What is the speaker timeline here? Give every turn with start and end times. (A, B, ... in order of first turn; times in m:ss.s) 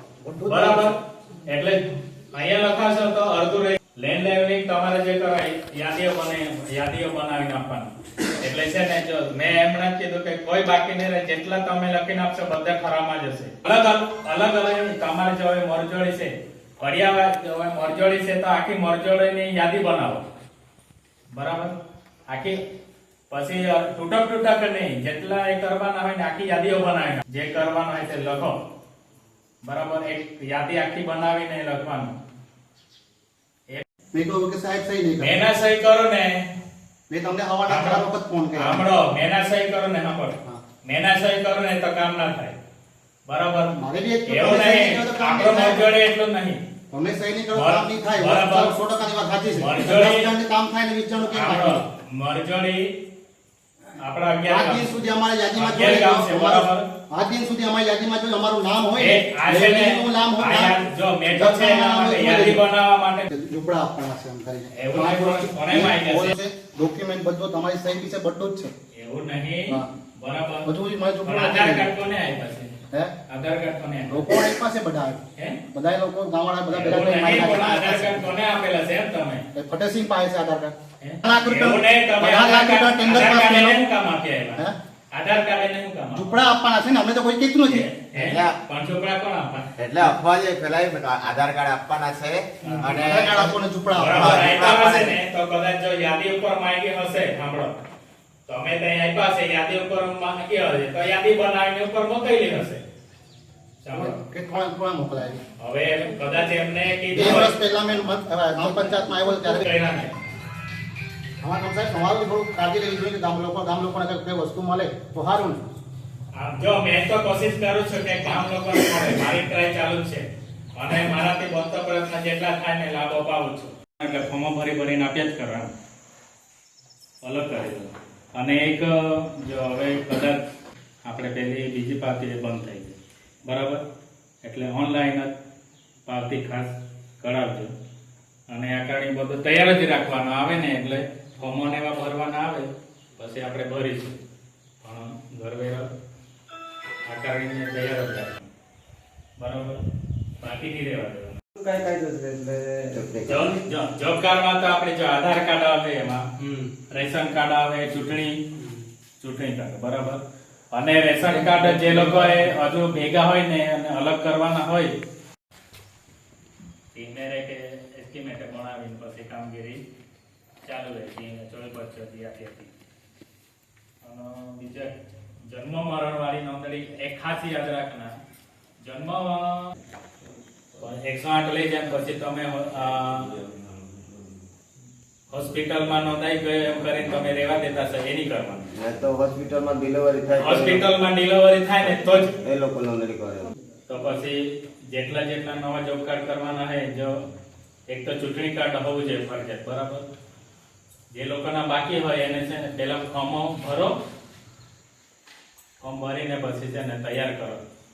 0:00.2-0:01.0 A
0:00.5-0:20.2 B
0:21.3-0:21.8 B
0:22.3-0:22.6 B
0:23.3-0:28.6 B
0:29.6-0:32.2 B
0:34.1-0:35.4 A
0:35.2-0:36.4 B
0:37.1-0:38.8 A
0:37.7-0:42.6 B
0:43.2-0:43.7 B
0:43.8-0:45.8 A
0:44.2-0:46.6 B
0:46.9-0:51.8 A
0:47.5-0:48.7 B
0:49.6-0:50.3 B
0:51.3-0:52.9 B
0:54.0-0:54.9 B
0:54.5-1:00.8 A
0:55.5-0:56.8 B
0:59.0-1:03.3 B
1:01.3-1:02.6 A
1:03.3-1:08.7 A
1:04.7-1:06.4 B
1:08.9-1:10.7 B
1:10.6-1:11.9 A
1:11.2-1:12.7 B
1:13.3-1:14.2 B
1:14.1-1:15.2 A
1:15.7-1:18.3 A
1:16.7-1:19.4 B
1:19.5-1:23.8 A
1:21.0-1:26.4 B
1:26.1-1:27.9 A
1:27.6-1:30.1 B
1:28.2-1:28.6 C
1:29.8-1:33.5 C
1:32.6-1:33.0 B
1:32.8-1:34.7 A
1:33.9-1:37.8 B
1:34.0-1:35.2 C
1:38.5-1:42.8 B
1:43.8-1:44.2 B
1:43.9-1:45.4 A
1:45.6-1:47.5 B
1:47.1-1:49.6 A
1:49.4-1:50.1 B
1:51.4-1:55.6 A
1:56.3-2:05.7 B
2:07.2-2:10.4 B
2:11.0-2:12.9 B
2:13.4-2:13.8 B
2:14.4-2:15.3 B
2:16.1-2:17.7 B
2:18.5-2:24.2 B
2:24.8-2:25.9 B
2:27.0-2:28.5 B
2:29.4-2:29.8 B
2:30.4-2:31.4 B
2:31.6-2:33.6 C
2:33.2-2:36.2 B
2:36.9-2:38.3 B
2:39.2-2:40.2 B
2:40.7-2:44.9 B
2:41.5-2:42.2 C
2:46.9-2:49.8 B
2:50.6-2:52.7 B
2:54.0-2:54.9 B
2:55.5-2:58.1 B
2:58.8-2:59.7 B
3:00.8-3:03.3 B
3:05.3-3:08.7 B
3:08.7-3:10.8 C
3:10.4-3:12.4 B
3:12.4-3:13.5 C
3:13.9-3:17.2 B
3:17.9-3:20.1 B
3:21.1-3:23.9 B
3:25.8-3:27.6 B